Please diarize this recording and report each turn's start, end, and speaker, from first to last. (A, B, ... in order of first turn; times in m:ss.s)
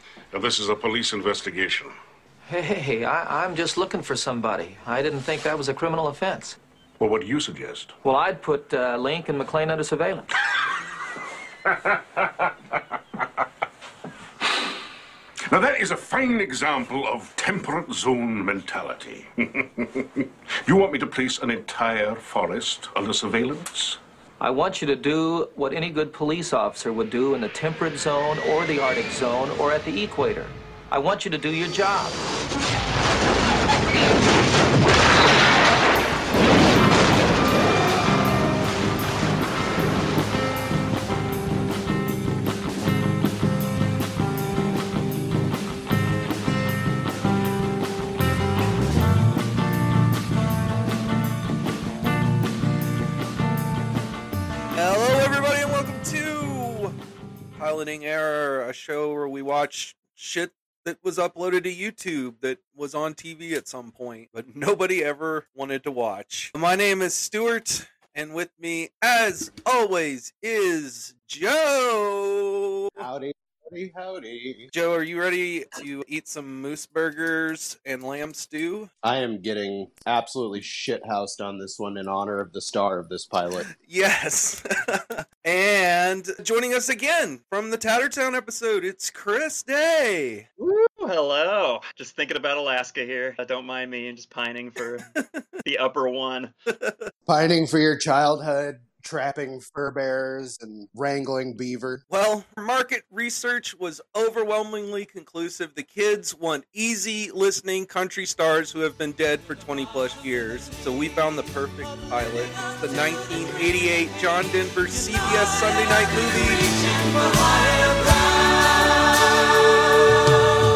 0:00.3-0:01.9 A
0:02.5-0:06.6 B
0:07.0-0:08.0 A
0:08.0-0:10.3 B
0:11.7-0:12.5 A
0:15.5-0:24.0 A
0:24.4-0:32.2 B
0:54.7-0:56.9 C
0:57.6-1:13.0 C
1:13.0-1:14.7 D
1:14.7-1:18.9 C
1:19.0-1:23.7 D
1:23.8-1:30.5 C
1:30.6-1:35.1 E
1:35.6-1:36.5 E
1:36.7-1:37.1 C
1:37.3-1:42.0 D
1:42.1-1:56.7 C